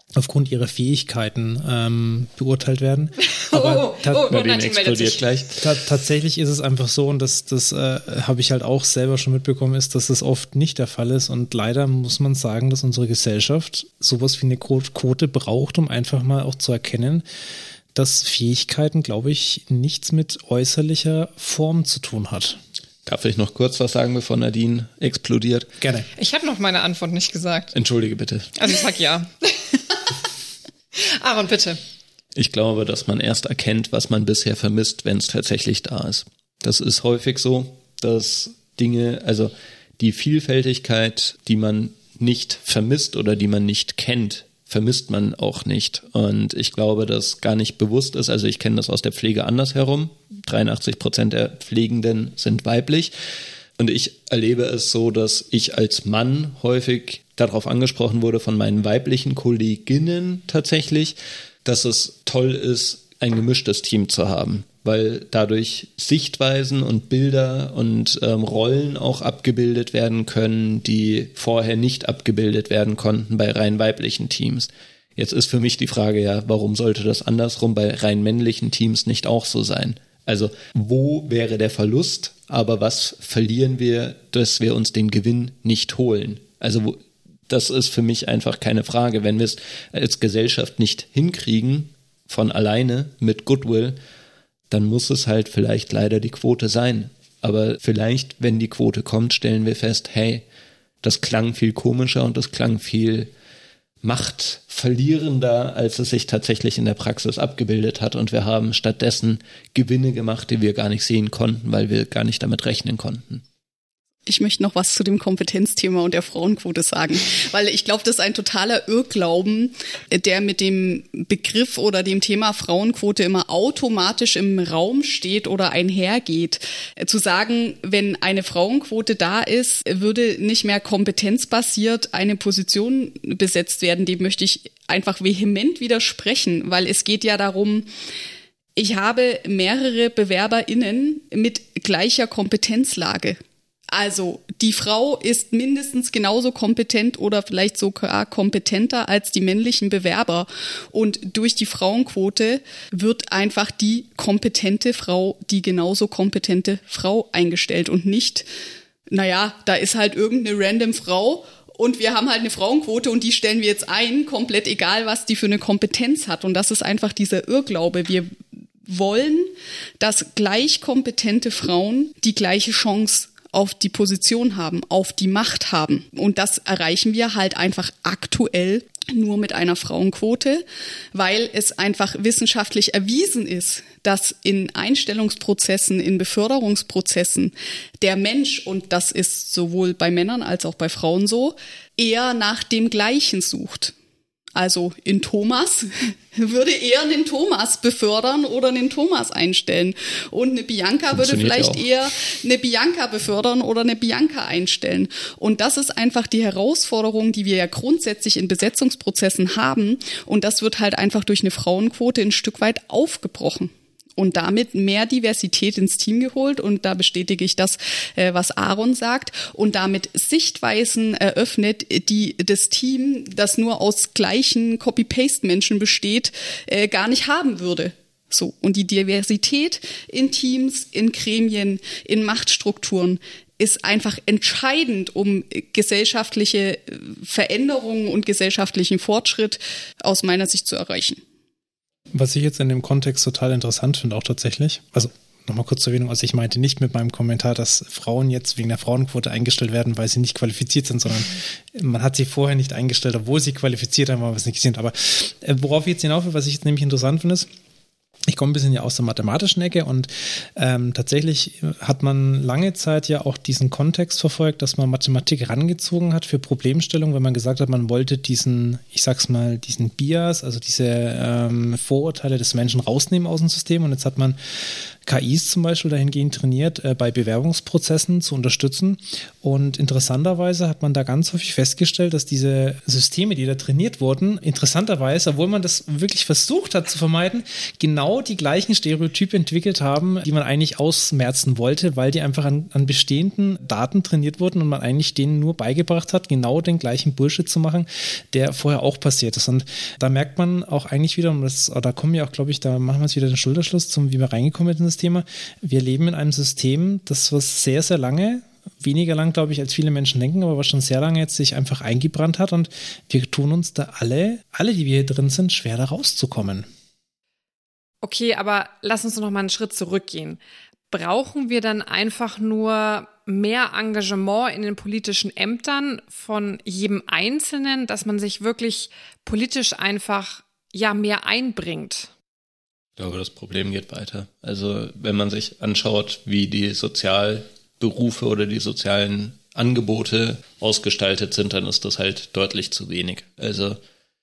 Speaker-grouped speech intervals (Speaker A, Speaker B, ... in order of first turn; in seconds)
Speaker A: 0.1-4.2, 5.6-17.2, 17.9-22.6, 25.8-26.1, 242.1-257.5, 258.3-274.4, 275.1-316.7
Speaker B: 3.4-5.2, 26.2-27.7, 28.6-30.0, 30.9-31.8, 318.0-320.4, 320.9-332.1
Speaker C: 4.2-5.8, 23.1-25.7, 27.7-28.7, 32.3-53.1, 53.8-94.0, 94.7-100.4, 101.0-103.3, 104.0-113.4, 201.1-201.8, 333.0-343.8
Speaker D: 114.3-137.9, 138.8-143.4, 143.9-158.4, 159.1-193.9, 194.6-241.2